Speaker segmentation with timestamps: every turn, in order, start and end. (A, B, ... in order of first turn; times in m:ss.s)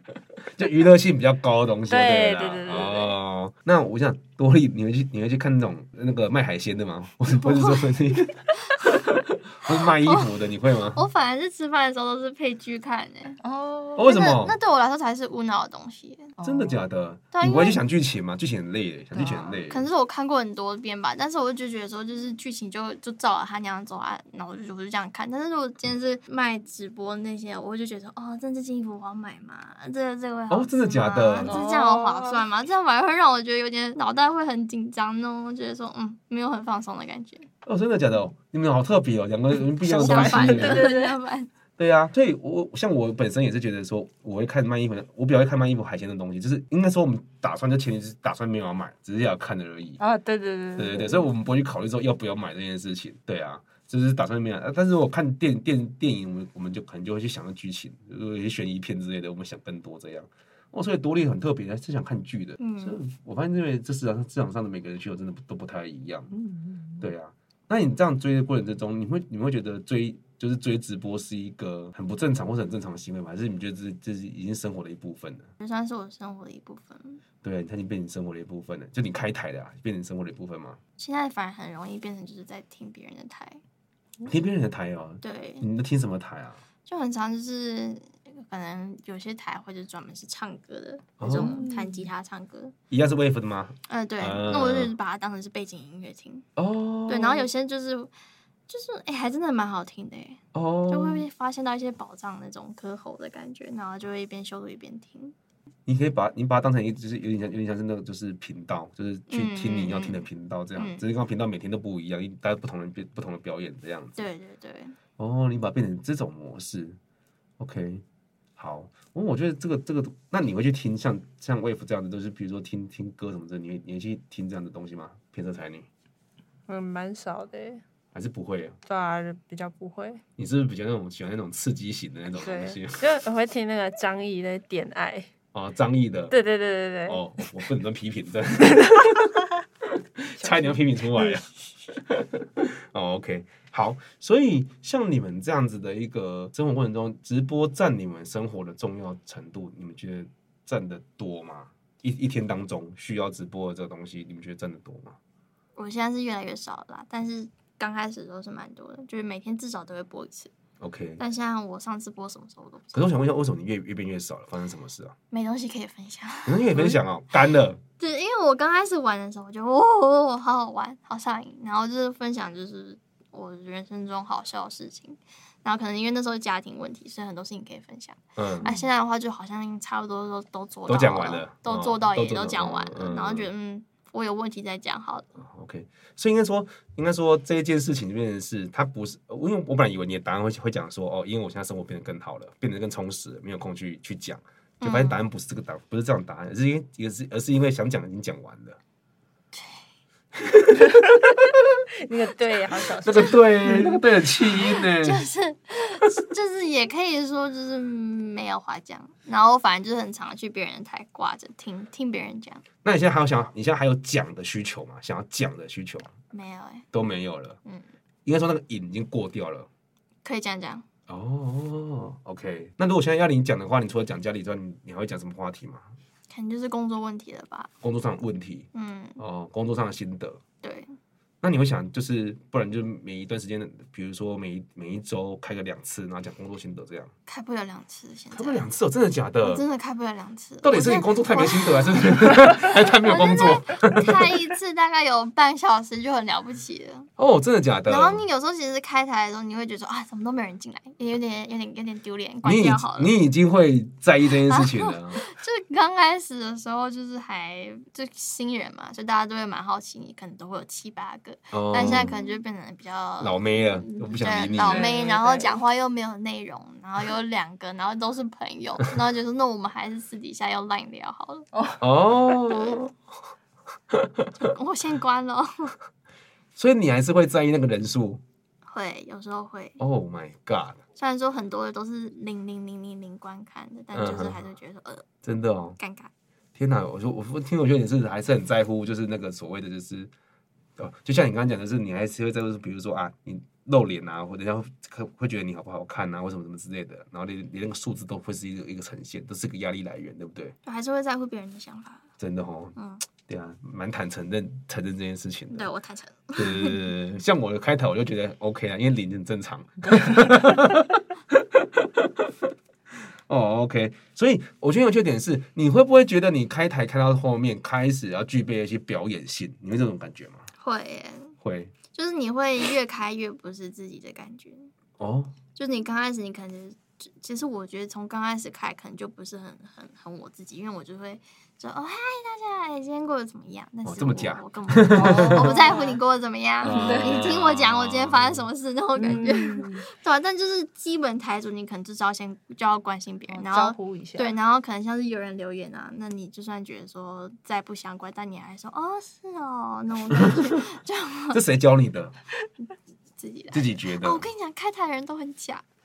0:00.5-0:11.0 A
0:01.9-0:03.1 B
0:07.4-0:07.9 C
0:10.0-0:10.3 C
0:10.9-0:13.4 C
0:13.4-0:14.0 B
0:13.9-0:14.6 A
0:14.0-0:16.3 C
0:16.4-0:16.8 B
0:16.4-0:19.9 A
0:17.3-0:17.8 C
0:19.1-0:37.5 C
0:30.5-0:31.6 A
0:31.4-0:32.4 B
0:37.6-0:40.8 A
0:39.8-0:41.2 B
0:39.8-0:41.5 C
0:41.8-0:50.0 A
0:50.0-0:51.3 B
0:50.8-1:06.3 A
1:02.6-1:03.0 C
1:06.3-1:07.1 B
1:07.0-1:15.5 A
1:15.6-1:17.2 C
1:17.4-1:20.8 A
1:21.0-1:23.6 C
1:24.2-1:26.6 A
1:25.2-1:25.7 C
1:26.8-1:32.8 C
1:31.2-1:31.6 A
1:31.2-1:32.1 B
1:32.9-1:34.9 A
1:33.8-1:36.5 C
1:36.6-1:37.5 A
1:37.1-1:38.1 C
1:38.7-1:45.3 C
1:40.5-1:41.2 A
1:45.9-1:54.2 A
1:49.3-1:50.2 C
1:50.8-1:51.0 C
1:54.2-1:55.0 C
1:55.2-1:57.0 A
1:57.6-1:58.0 A
1:58.6-2:05.9 A
2:06.7-2:07.8 B
2:08.1-2:08.8 A
2:08.8-2:10.2 B
2:10.4-2:13.0 A
2:12.3-2:15.3 B
2:15.5-2:16.4 A
2:16.3-2:17.5 B
2:17.0-2:19.3 A
2:20.2-2:35.2 A
2:20.4-2:21.4 B
2:35.8-2:40.5 C
2:40.8-2:41.2 A
2:41.2-2:43.2 C
2:42.9-2:45.2 A
2:45.3-2:46.7 C
2:46.5-2:47.8 A
2:48.0-3:05.4 C
2:58.4-2:58.8 A
3:00.9-3:03.5 A
3:05.4-3:18.8 A
3:14.8-3:15.2 C
3:20.9-3:21.2 B
3:22.0-3:24.0 B
3:23.0-3:25.2 A
3:24.6-3:32.6 C
3:32.8-3:36.1 A
3:36.3-3:36.9 C
3:36.9-3:37.6 A
3:38.2-3:39.7 A
3:40.2-3:40.8 C
3:41.1-3:45.9 A
3:46.3-3:47.7 C
3:47.8-3:48.7 A
3:48.7-3:49.2 C
3:49.2-3:50.4 A
3:50.6-3:51.0 C
3:51.4-3:57.1 A
3:57.3-3:58.7 C
3:58.3-3:59.6 A
3:59.4-4:07.1 C
4:00.6-4:04.4 A
4:07.2-4:08.2 A
4:07.8-4:13.2 C
4:12.4-4:15.2 A
4:14.3-4:31.5 C
4:21.5-4:22.1 A
4:21.9-4:22.3 B
4:23.2-4:25.0 A
4:24.4-4:25.6 B
4:31.5-4:31.8 B
4:31.8-4:33.0 A
4:32.4-4:32.9 C
4:33.9-4:34.3 A
4:34.4-4:35.8 C
4:36.6-4:38.2 A
4:38.7-4:39.8 C
4:39.8-4:40.8 A
4:41.0-4:45.0 C
4:43.9-4:44.4 A
4:45.2-4:45.8 A
4:45.8-4:46.1 C
4:46.6-4:50.1 A
4:50.8-5:00.5 A
5:00.6-5:02.0 C
5:02.2-5:02.8 A
5:02.8-5:03.1 C
5:03.3-5:05.7 A
5:05.5-5:06.8 C
5:06.4-5:12.3 A
5:13.3-5:20.5 A
5:20.6-5:21.4 C
5:21.4-5:21.8 A
5:21.9-5:24.7 C
5:25.0-5:25.4 A
5:25.5-5:51.4 C
5:33.8-5:35.7 A
5:34.9-5:36.0 B
5:36.6-5:38.5 A
5:36.6-5:37.2 B
5:39.0-5:39.9 B
5:43.3-5:44.4 B
5:51.3-5:52.1 A
5:53.2-5:55.6 C
5:53.5-5:54.3 A